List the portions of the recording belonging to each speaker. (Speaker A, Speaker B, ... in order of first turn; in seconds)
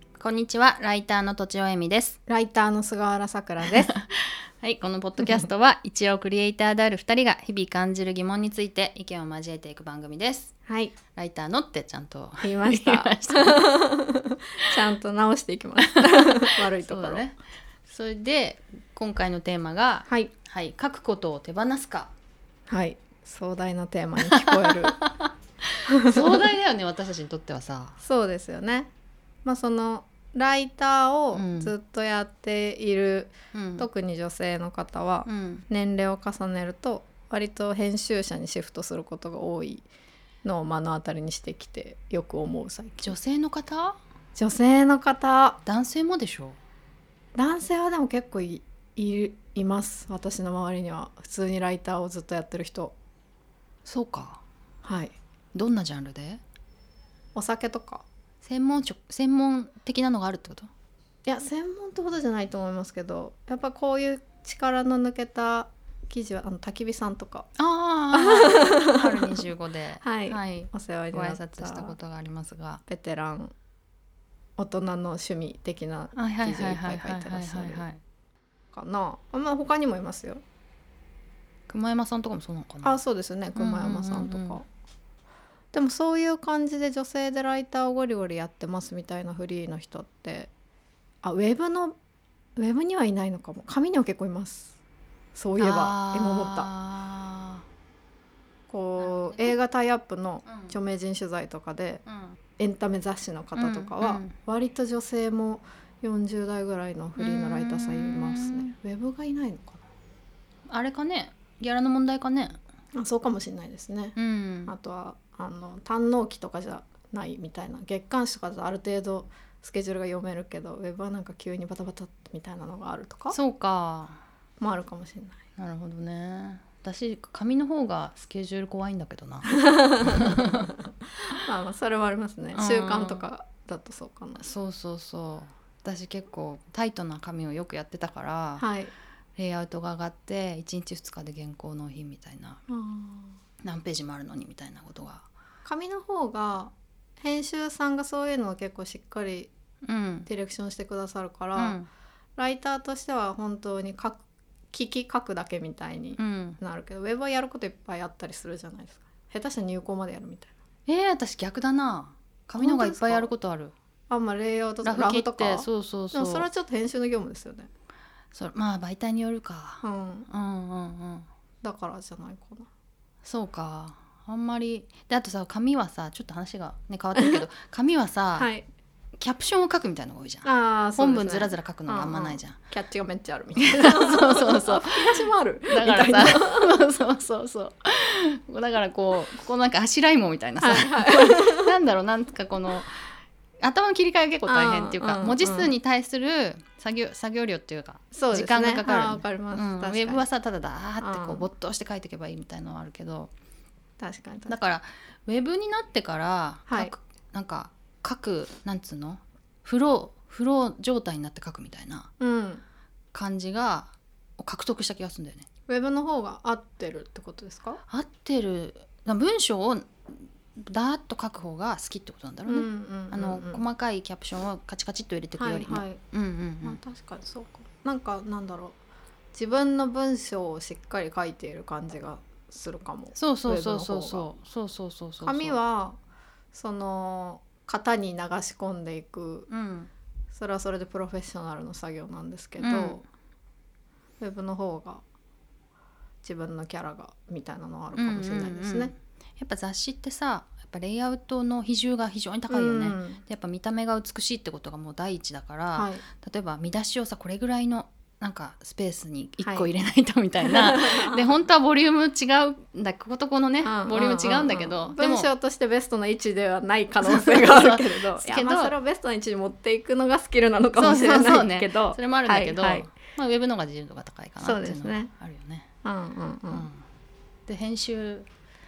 Speaker A: 0.2-2.2, 4.2-10.5, 11.2-13.6, 15.8-17.4, 17.9-22.1, 24.3-28.0, 31.3-31.7, 33.5-33.9, 35.2-35.6, 43.0-44.0, 45.6-46.6, 53.8-54.4, 55.5-56.4, 58.4-60.7, 67.6-72.8, 76.1-78.0, 81.7-83.0, 83.5-84.6, 95.6-97.6, 99.0-99.6, 100.5-100.7, 102.0-102.3, 103.6-104.3, 107.2-108.7, 110.7-112.6, 114.2-114.7, 123.3-124.2, 125.6-130.7, 132.5-133.3, 134.4-138.7, 139.3-142.6, 143.6-145.3, 149.8-150.3, 151.6-151.9, 156.2-156.6, 160.9-163.7, 164.8-166.5, 168.3-171.3, 173.2-178.5, 179.2-182.6, 183.6-203.3, 204.5-212.1, 213.1-215.4, 217.9-226.8, 233.1-235.6, 239.5-239.9, 242.6-243.0, 247.9-265.3, 267.0-268.7, 270.8-275.7, 276.5-276.8, 277.5-278.3
Speaker B: 2.3-3.9, 10.7-10.9, 12.4-17.2, 20.1-20.3, 22.7-25.0, 25.9-26.4, 28.0-28.9, 29.4-39.9, 40.4-43.1, 44.4-45.6, 47.3-52.9, 54.8-55.1, 57.3-58.0, 61.2-67.5, 68.1-69.4, 70.0-71.9, 72.9-73.5, 74.6-77.9, 78.7-80.4, 82.8-84.7, 85.7-90.5, 91.2-91.9, 92.6-94.8, 95.3-96.7, 98.7-102.0, 102.6-109.8, 112.9-114.2, 114.7-123.4, 124.6-125.4, 129.5-134.4, 138.6-138.9, 142.7-143.4, 145.6-149.5, 150.3-151.8, 152.4-160.5, 162.6-163.3, 164.1-167.7, 169.8-170.3, 171.6-172.7, 178.4-178.7, 180.4-186.7, 190.6-191.7, 194.4-195.7, 198.1-200.2, 201.0-201.5, 204.0-204.6, 212.2-212.6, 215.7-217.8, 222.4-223.6, 225.4-226.0, 226.6-228.8, 229.3-234.3, 235.2-236.0, 236.5-239.5, 240.3-243.0, 244.2-245.0, 246.2-248.9, 252.5-253.2, 255.7-256.0, 259.4-259.7, 260.4-261.2, 263.6-272.9, 274.4-275.1, 275.8-276.7